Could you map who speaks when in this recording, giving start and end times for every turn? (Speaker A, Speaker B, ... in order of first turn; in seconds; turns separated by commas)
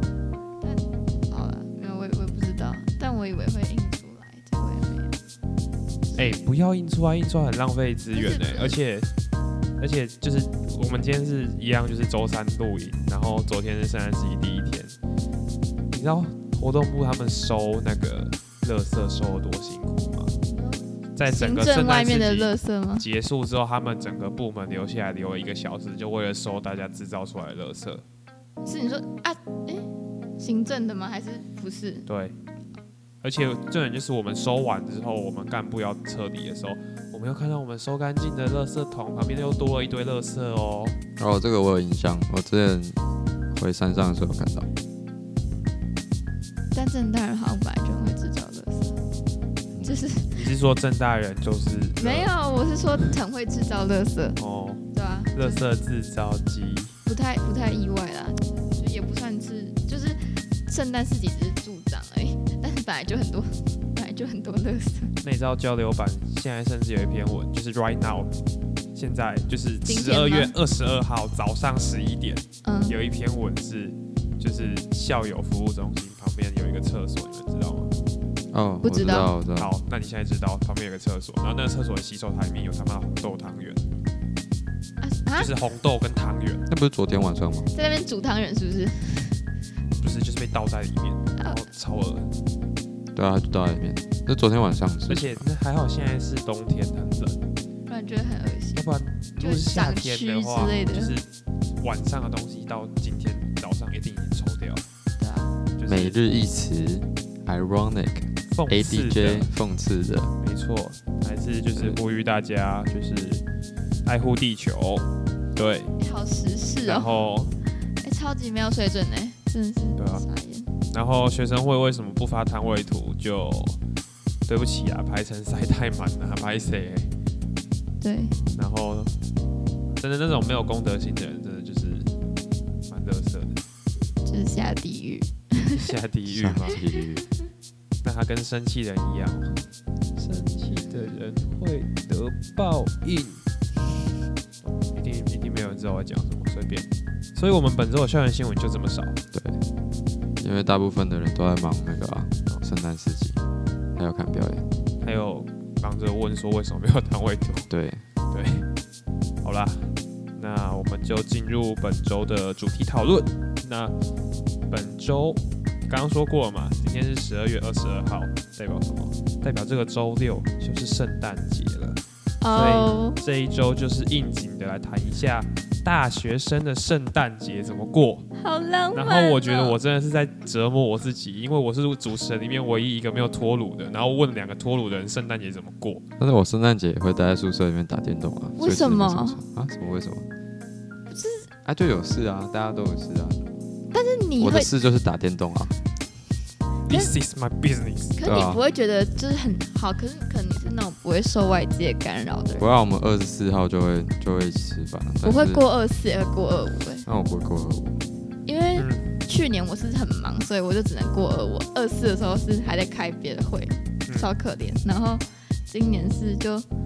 Speaker A: 0.6-5.2, Speaker A: 6.1-6.4, Speaker B: 6.2-9.1, Speaker A: 8.1-8.8, Speaker B: 9.8-14.9, Speaker B: 15.9-20.3, Speaker A: 20.5-23.0, Speaker B: 21.1-28.0, Speaker A: 28.6-32.1, Speaker B: 32.1-32.3, Speaker B: 33.2-41.0, Speaker C: 41.2-43.0, Speaker C: 43.5-44.7, Speaker A: 46.7-48.9, Speaker A: 49.8-50.3, Speaker B: 50.3-52.3, Speaker A: 52.0-54.4, Speaker B: 54.4-56.9, Speaker A: 54.9-55.6, Speaker A: 57.0-65.2, Speaker B: 65.2-68.3, Speaker B: 68.9-77.9, Speaker A: 69.8-70.5, Speaker A: 72.6-73.0, Speaker C: 78.5-79.7, Speaker A: 78.8-79.3, Speaker B: 79.5-83.8, Speaker A: 85.0-85.5, Speaker B: 85.3-86.6, Speaker C: 86.7-87.7, Speaker A: 87.7-89.4, Speaker B: 90.0-92.3, Speaker C: 93.1-95.5, Speaker B: 95.1-97.4, Speaker A: 97.9-101.1, Speaker B: 98.8-104.8, Speaker A: 105.2-105.5, Speaker B: 105.8-106.2, Speaker C: 105.9-110.3, Speaker B: 108.5-109.5, Speaker B: 110.4-113.4, Speaker B: 114.0-115.9, Speaker A: 116.0-117.1, Speaker B: 116.8-117.5, Speaker A: 118.0-120.7, Speaker B: 120.0-120.2, Speaker B: 120.9-123.8, Speaker B: 124.5-127.1, Speaker A: 128.0-128.3, Speaker B: 128.5-129.1, Speaker B: 129.9-132.1, Speaker B: 132.9-133.6, Speaker A: 134.2-135.8, Speaker B: 135.7-136.8, Speaker C: 136.3-137.2, Speaker B: 138.0-139.6, Speaker B: 140.2-143.4, Speaker B: 144.7-149.2, Speaker C: 149.3-149.6, Speaker C: 150.4-153.4, Speaker C: 153.9-154.7, Speaker B: 155.0-157.7, Speaker C: 157.7-158.0, Speaker B: 158.3-158.7, Speaker B: 159.4-163.9, Speaker B: 164.7-172.0, Speaker A: 172.4-173.2, Speaker B: 172.5-178.3, Speaker A: 178.4-179.8, Speaker B: 178.9-186.0, Speaker C: 186.2-190.3, Speaker A: 188.6-189.4, Speaker A: 191.1-191.5, Speaker C: 191.6-193.5, Speaker A: 193.9-194.7, Speaker C: 194.4-195.7, Speaker B: 196.8-198.2, Speaker A: 198.2-202.7, Speaker C: 198.2-198.6, Speaker C: 202.6-205.6, Speaker A: 205.2-207.1, Speaker C: 207.0-208.1, Speaker A: 208.4-216.7, Speaker B: 208.8-209.1